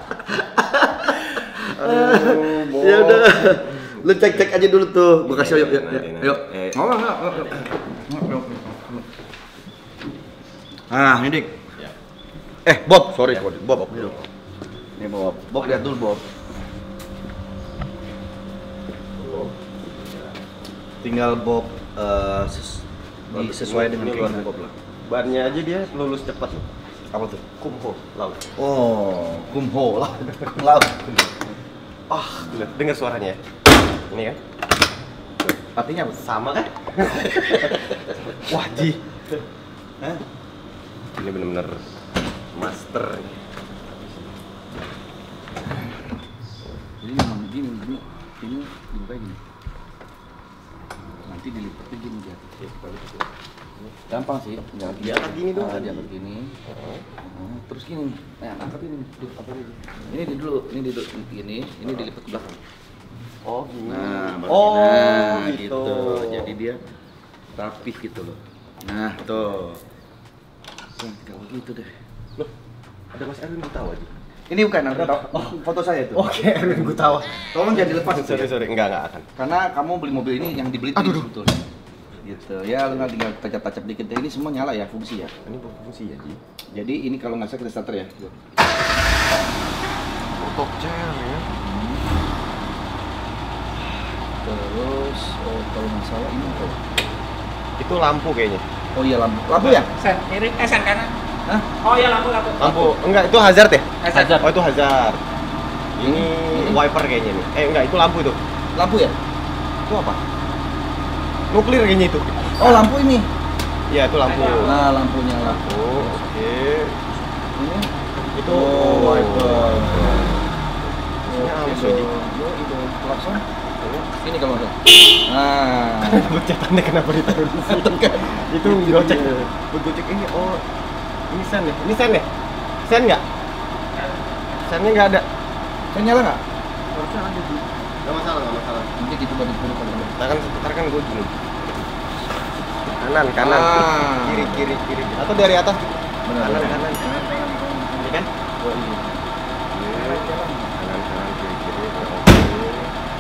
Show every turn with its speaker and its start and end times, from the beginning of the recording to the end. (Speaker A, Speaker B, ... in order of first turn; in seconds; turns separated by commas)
Speaker A: 0.2-9.1, Speaker B: 1.4-4.1, Speaker B: 5.2-7.7, Speaker A: 10.9-11.6, Speaker A: 12.6-14.2, Speaker B: 13.3-14.2, Speaker A: 14.9-16.2, Speaker B: 19.2-19.5, Speaker A: 21.0-24.7, Speaker B: 23.3-24.5, Speaker B: 25.0-26.7, Speaker A: 27.1-27.4, Speaker B: 27.6-28.4, Speaker A: 28.6-31.0, Speaker B: 32.1-33.4, Speaker A: 32.4-32.8, Speaker B: 34.1-34.4, Speaker A: 35.6-36.2, Speaker B: 36.1-39.0, Speaker A: 37.0-37.9, Speaker B: 41.1-41.9, Speaker B: 42.5-43.4, Speaker A: 47.0-49.4, Speaker A: 51.2-52.7, Speaker B: 52.7-53.2, Speaker A: 54.1-56.5, Speaker B: 54.9-56.1, Speaker A: 57.2-62.5, Speaker B: 63.4-66.5, Speaker A: 63.9-66.8, Speaker A: 67.5-69.8, Speaker A: 71.0-71.9, Speaker B: 73.1-74.1, Speaker A: 74.5-78.5, Speaker B: 74.9-75.6, Speaker B: 76.1-79.3, Speaker A: 79.3-81.7, Speaker B: 81.0-81.3, Speaker A: 82.2-85.3, Speaker B: 85.4-86.4, Speaker A: 86.7-88.3, Speaker B: 90.3-91.5, Speaker A: 91.6-92.1, Speaker A: 94.2-96.8, Speaker B: 97.8-98.6, Speaker A: 98.9-99.9, Speaker C: 99.8-101.1, Speaker C: 101.8-102.8, Speaker B: 102.6-105.2, Speaker A: 102.6-102.9, Speaker C: 104.0-104.4, Speaker B: 106.0-108.4, Speaker A: 106.0-106.8, Speaker A: 108.7-109.1, Speaker B: 109.8-110.2, Speaker B: 111.5-112.8, Speaker A: 112.6-113.3, Speaker B: 113.9-114.8, Speaker C: 114.3-114.6, Speaker A: 114.6-116.3, Speaker B: 115.4-117.0, Speaker A: 117.5-117.9, Speaker B: 118.3-120.4, Speaker A: 118.4-120.4, Speaker B: 121.2-122.1, Speaker A: 121.3-123.4, Speaker B: 123.8-124.1, Speaker A: 124.1-126.3, Speaker B: 126.0-130.6, Speaker A: 127.7-129.5, Speaker B: 131.3-132.3, Speaker B: 132.8-133.2, Speaker B: 134.6-135.2, Speaker A: 135.9-137.6, Speaker B: 138.0-138.9, Speaker A: 139.0-140.2, Speaker B: 140.1-141.4, Speaker B: 142.9-147.1, Speaker A: 143.4-144.8, Speaker A: 146.2-149.2, Speaker B: 147.9-148.3, Speaker B: 149.7-152.9, Speaker A: 149.9-150.8